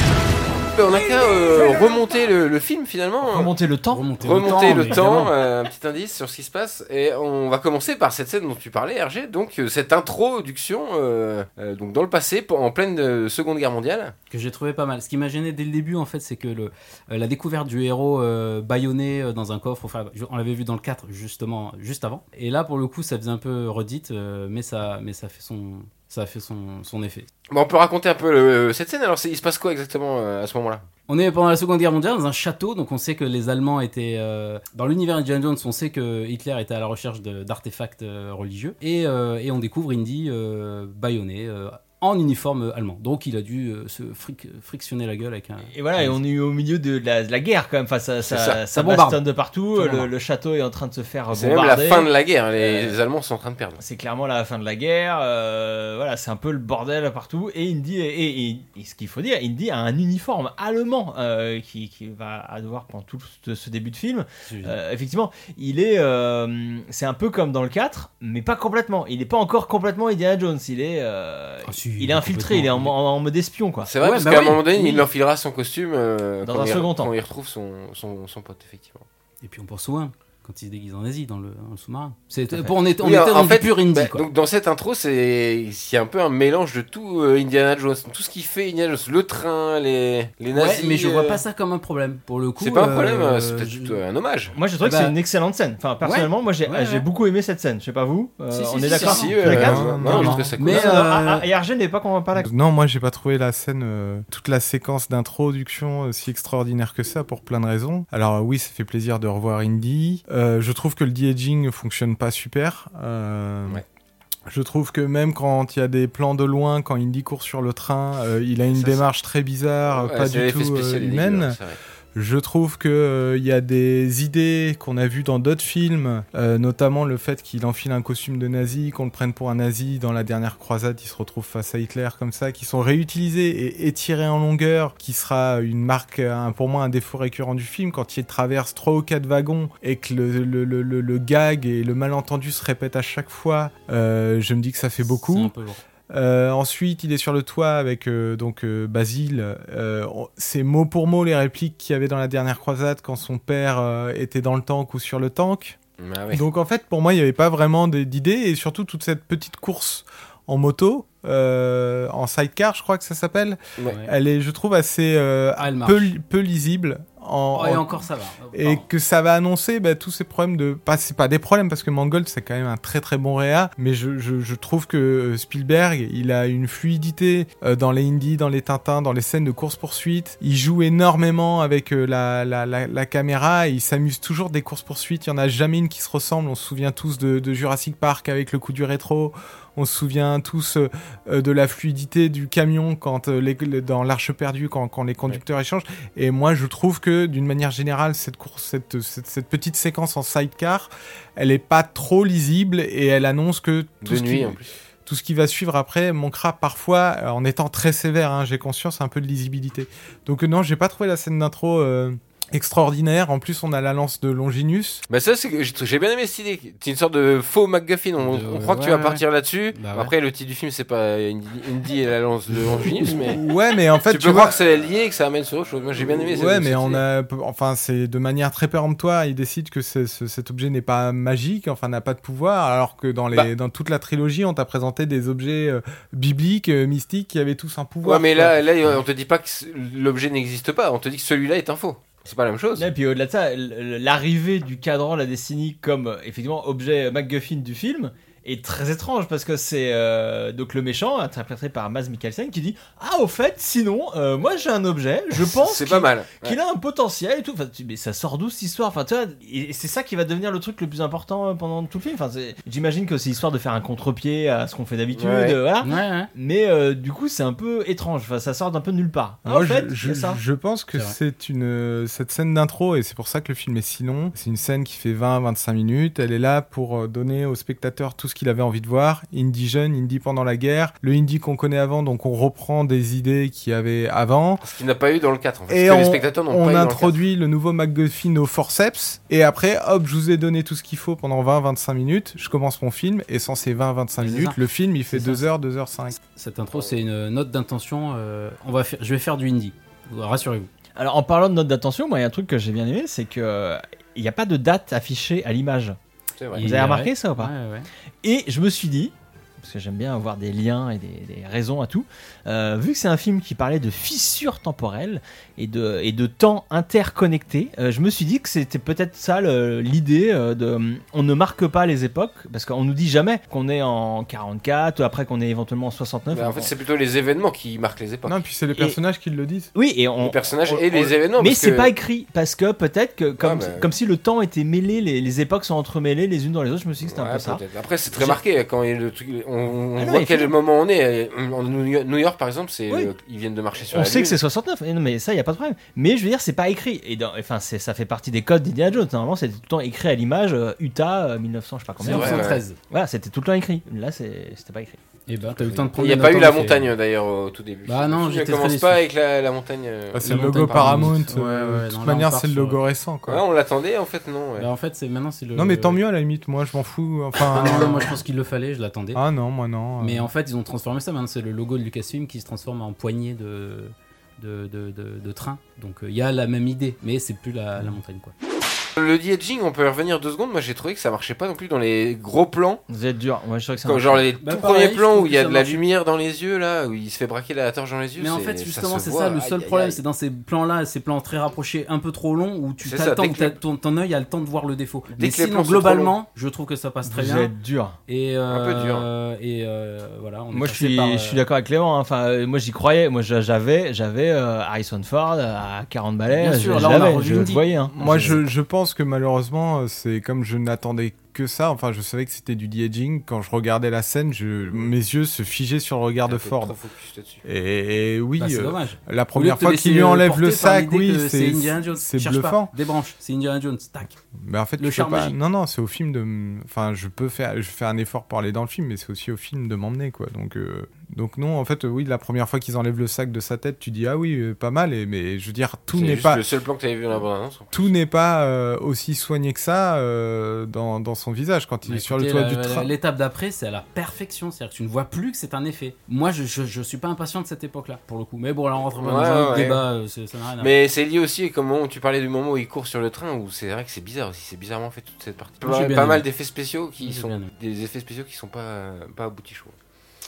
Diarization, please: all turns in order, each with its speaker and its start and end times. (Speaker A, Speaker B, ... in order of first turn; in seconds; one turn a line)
Speaker A: 0.7-3.5
Speaker B: 3.2-4.9
Speaker C: 3.9-5.3
Speaker A: 4.2-14.1
Speaker C: 14.3-27.3
Speaker A: 27.5-30.8
Speaker C: 31.1-46.2
Speaker B: 45.7-53.0
Speaker A: 48.2-48.6
Speaker C: 48.7-49.2
Speaker C: 49.7-50.1
Speaker A: 51.3-53.8
Speaker B: 53.8-73.9
Speaker C: 64.5-64.8
Speaker C: 71.6-72.9
Speaker A: 73.8-79.0
Speaker C: 74.0-75.0
Speaker B: 76.4-77.1
Speaker C: 79.4-84.2
Speaker B: 82.5-82.7
Speaker A: 83.0-91.4
Speaker C: 90.5-94.0
Speaker A: 92.6-94.5
Speaker B: 94.5-102.5
Speaker C: 94.8-95.1
Speaker C: 96.0-97.0
Speaker C: 98.5-101.5
Speaker A: 99.0-101.0
Speaker D: 99.4-100.5
Speaker D: 102.3-113.8
Speaker D: 114.5-121.6
Speaker A: 118.7-119.1
Speaker A: 119.9-121.8
Speaker D: 122.1-145.5
Speaker C: 145.0-145.8
Speaker D: 146.1-155.8
Speaker A: 156.0-156.4
Speaker D: 156.3-215.0
Speaker C: 165.6-166.1
Speaker C: 167.5-168.8
Speaker A: 204.0-204.7
Speaker A: 215.1-223.4
Speaker C: 218.2-220.1
Speaker D: 223.1-224.6
Speaker A: 224.1-227.0
Speaker D: 226.2-238.6
Speaker A: 238.0-242.9
Speaker B: 242.8-270.4
Speaker A: 255.3-256.6
Speaker A: 265.1-265.6
Speaker C: 265.8-266.3
Speaker D: 269.4-284.6
Speaker A: 284.6-287.1
Speaker D: 285.7-296.2
Speaker C: 294.2-294.6
Speaker C: 295.1-295.4
Speaker C: 296.3-300.7
Speaker B: 300.9-306.0
Speaker A: 306.4-306.7
Speaker C: 306.5-307.9
Speaker B: 306.6-307.5
Speaker B: 308.2-326.7
Speaker A: 326.3-328.4
Speaker D: 328.2-329.7
Speaker B: 329.7-338.4
Speaker A: 330.2-331.9
Speaker A: 333.4-333.9
Speaker A: 337.0-344.4
Speaker B: 340.0-340.5
Speaker B: 343.9-355.0
Speaker A: 352.0-352.6
Speaker C: 352.0-352.8
Speaker C: 355.3-356.9
Speaker A: 355.7-361.1
Speaker C: 357.9-359.0
Speaker D: 360.1-363.4
Speaker C: 360.2-362.8
Speaker A: 363.2-364.7
Speaker C: 364.6-366.0
Speaker D: 365.5-368.1
Speaker C: 367.5-369.2
Speaker D: 369.1-370.3
Speaker C: 370.0-378.3
Speaker A: 379.0-382.8
Speaker B: 382.9-384.2
Speaker A: 383.8-390.0
Speaker C: 384.4-385.8
Speaker C: 388.2-397.5
Speaker A: 392.8-393.6
Speaker A: 395.1-396.1
Speaker B: 397.0-398.0
Speaker C: 398.1-401.4
Speaker A: 398.5-399.1
Speaker B: 400.5-408.4
Speaker C: 406.3-407.6
Speaker D: 407.9-416.8
Speaker A: 416.3-417.4
Speaker D: 417.4-422.7
Speaker C: 418.4-424.2
Speaker D: 424.4-436.4
Speaker C: 424.8-425.4
Speaker A: 435.9-437.9
Speaker D: 437.7-442.9
Speaker C: 441.9-450.7
Speaker A: 448.9-449.8
Speaker A: 450.6-459.8
Speaker C: 455.6-456.2
Speaker C: 457.0-457.5